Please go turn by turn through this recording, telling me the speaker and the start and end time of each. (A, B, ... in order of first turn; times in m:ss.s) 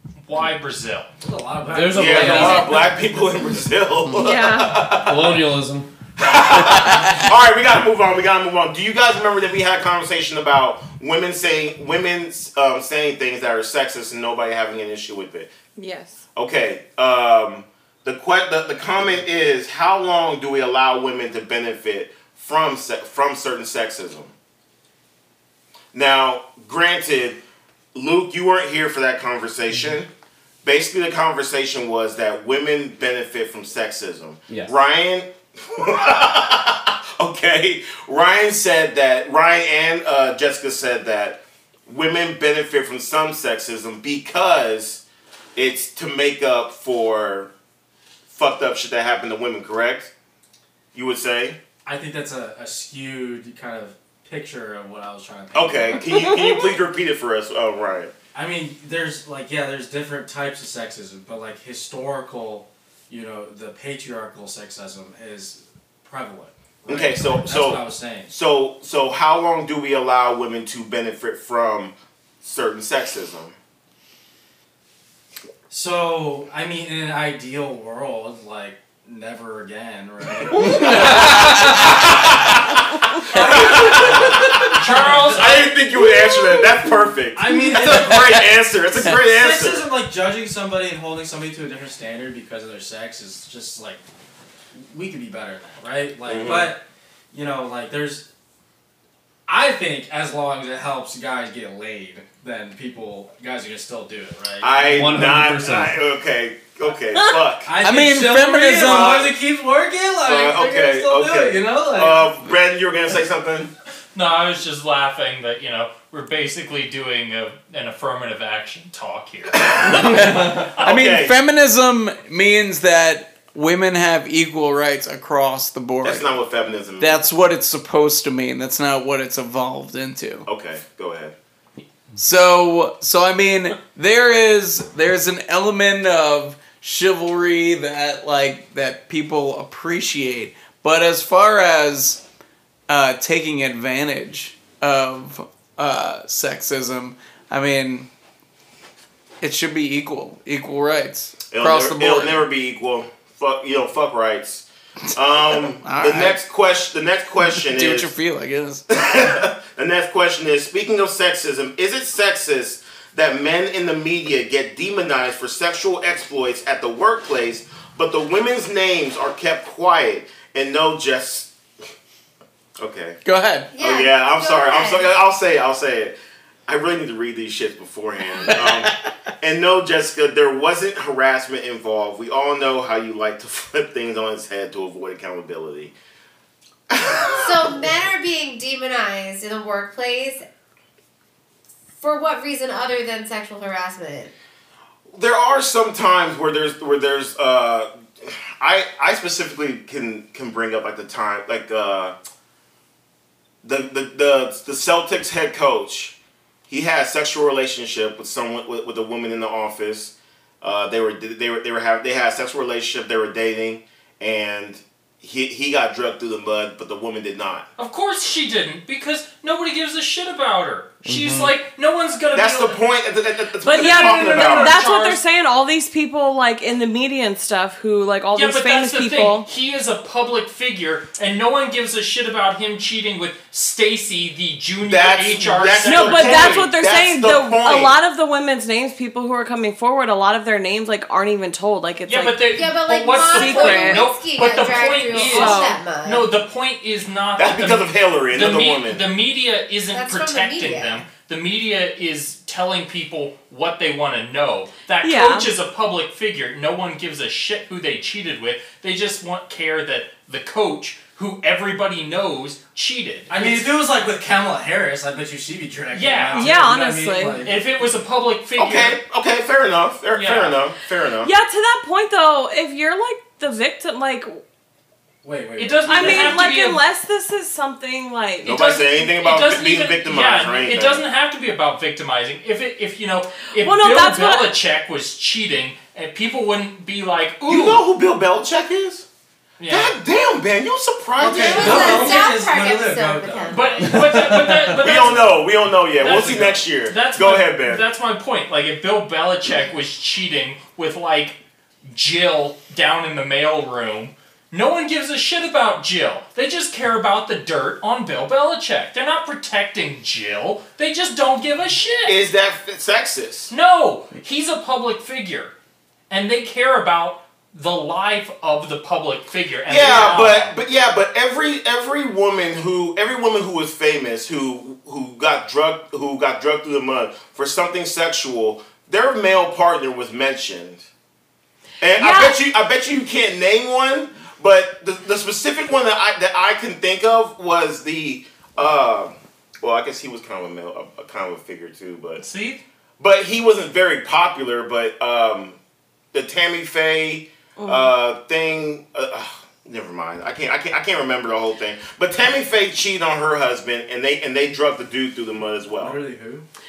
0:00.2-0:01.1 A
0:01.2-0:03.0 B
0:01.6-0:02.8 C
0:01.9-0:05.5 D
0:04.1-0:04.8 E
0:04.9-0:05.9 C
0:06.2-0:15.5 D
0:06.5-0:07.0 C
0:06.7-0:07.1 F
0:15.8-0:16.2 E
0:16.3-0:24.3 D
0:25.9-0:27.4 D
0:27.9-0:30.1 D
0:30.6-0:45.0 D
0:45.6-0:47.5 D
0:48.3-0:50.1 D
0:50.9-0:51.6 D
0:51.8-0:56.2 B
0:55.5-0:58.1 D
0:56.1-0:56.5 E
0:58.3-1:08.3 B
1:06.8-1:13.5 D
1:15.7-1:22.7 B
1:20.5-1:29.9 D
1:20.9-1:21.2 C
1:20.9-1:22.1 F
1:23.3-1:26.1 B
1:23.3-1:24.1 F
1:24.7-1:25.6 A
1:27.3-1:34.0 B
1:27.9-1:28.4 F
1:34.7-1:38.2 B
1:36.2-1:36.7 D
1:39.5-1:44.8 B
1:44.6-1:47.7 D
1:44.8-1:46.0 C
1:47.6-1:52.3 B
1:47.8-1:49.3 F
1:48.8-1:49.3 D
1:50.2-1:53.7 D
1:54.1-1:59.9 A
1:59.5-2:01.3 D
1:59.9-2:06.3 F
2:00.5-2:00.8 A
2:06.0-2:07.2 D
2:07.0-2:10.5 F
2:10.4-2:11.3 D
2:12.2-2:22.2 F
2:22.9-2:28.1 F
2:29.4-2:32.4 F
2:31.5-2:38.1 D
2:35.3-2:36.4 F
2:37.4-2:38.8 F
2:38.9-2:51.5 D
2:52.8-2:53.2 D
2:53.2-2:53.7 F
2:53.7-2:55.1 G
2:53.8-2:56.1 D
2:56.7-3:05.9 D
2:58.4-2:59.0 F
3:06.9-3:07.8 D
3:07.4-3:10.4 G
3:12.0-3:14.3 G
3:15.1-3:22.1 D
3:23.6-3:26.1 D
3:26.7-3:37.7 D
3:37.8-3:42.8 A
3:41.0-3:41.5 C
3:42.3-3:44.8 D
3:43.6-3:49.5 E
3:43.6-3:45.2 A
3:48.3-3:56.7 A
3:54.8-3:58.0 D
3:55.8-4:02.5 E
4:02.1-4:23.7 A
4:02.5-4:06.3 G
4:03.3-4:04.0 E
4:05.1-4:05.8 E
4:07.4-4:09.0 D
4:09.9-4:11.0 G
4:15.0-4:15.5 E
4:23.3-4:27.6 B
4:25.9-4:26.6 A
4:26.3-4:27.4 E
4:27.3-4:29.0 A
4:28.6-4:31.3 D
4:30.1-4:30.6 A
4:31.2-4:34.4 E
4:35.2-4:36.4 B
4:35.6-4:36.8 A
4:35.9-4:38.7 E
4:38.4-4:41.0 D
4:38.4-4:47.8 A
4:43.6-4:44.5 E
4:47.5-4:49.0 D
4:49.6-4:50.0 A
4:49.7-4:52.2 D
4:51.2-4:55.1 B
4:51.2-4:53.8 G
4:53.5-4:55.4 A
4:54.8-4:57.8 D
4:56.0-5:12.2 A
5:12.0-5:13.5 D
5:13.5-5:15.5 A
5:16.1-5:20.5 A
5:19.7-5:30.9 D
5:31.8-5:42.2 D
5:32.0-5:32.4 E
5:42.2-5:42.6 A
5:43.0-5:45.6 D
5:46.1-5:56.0 D
5:47.6-5:47.9 E
5:55.8-5:56.4 B